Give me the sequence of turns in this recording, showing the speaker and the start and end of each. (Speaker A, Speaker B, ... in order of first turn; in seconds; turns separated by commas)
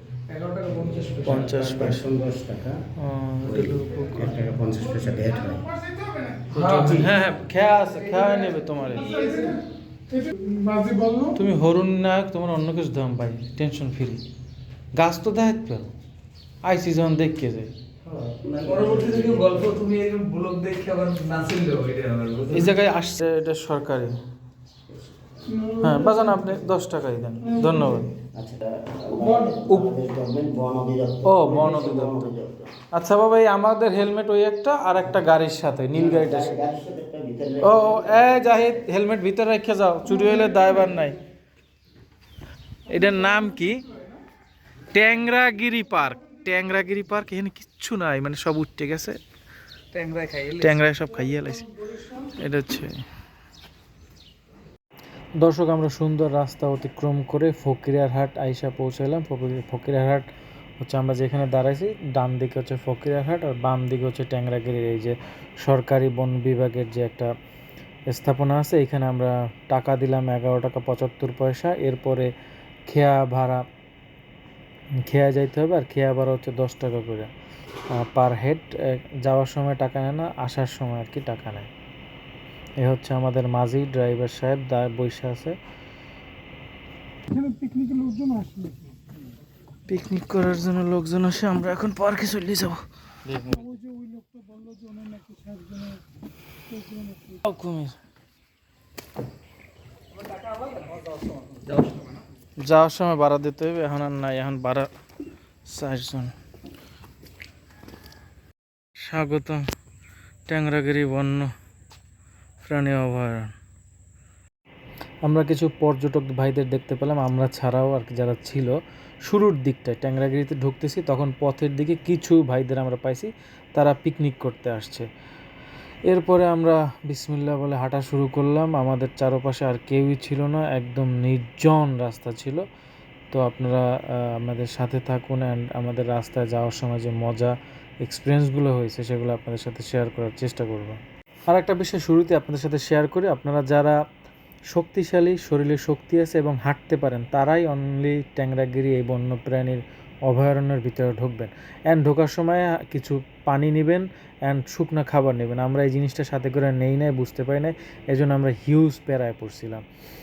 Speaker A: 0.3-1.3, Speaker B: 0.7-2.8, Speaker C: 1.2-2.1, Speaker C: 3.0-4.5, Speaker B: 3.5-5.7, Speaker D: 6.0-6.5, Speaker C: 6.5-9.1, Speaker A: 6.5-7.0, Speaker A: 9.0-9.5, Speaker D: 9.1-9.5, Speaker D: 10.1-11.3, Speaker C: 11.3-14.2, Speaker C: 15.0-15.9, Speaker C: 16.6-17.7, Speaker A: 18.1-22.7, Speaker B: 18.4-19.7, Speaker C: 22.5-24.2, Speaker D: 25.6-26.2, Speaker C: 25.8-28.1, Speaker B: 28.3-32.7, Speaker C: 31.2-32.3, Speaker C: 32.9-36.6, Speaker B: 35.9-38.3, Speaker C: 37.6-41.2, Speaker C: 42.9-43.8, Speaker C: 44.9-49.2, Speaker A: 49.9-50.8, Speaker C: 50.6-53.0, Speaker C: 55.4-60.2, Speaker C: 60.8-67.3, Speaker C: 68.1-72.3, Speaker C: 72.9-73.6, Speaker C: 75.1-77.3, Speaker C: 77.9-81.7, Speaker C: 82.8-85.5, Speaker D: 87.3-89.0, Speaker C: 89.9-93.8, Speaker D: 93.6-96.0, Speaker D: 96.7-97.4, Speaker C: 97.4-98.0, Speaker A: 100.3-102.2, Speaker C: 102.6-104.9, Speaker C: 105.7-106.3, Speaker C: 109.0-109.6, Speaker C: 110.5-111.5, Speaker C: 112.6-113.5, Speaker C: 115.2-118.7, Speaker C: 119.3-125.0, Speaker C: 126.1-132.6, Speaker C: 133.3-137.5, Speaker C: 138.0-144.0, Speaker C: 144.7-159.8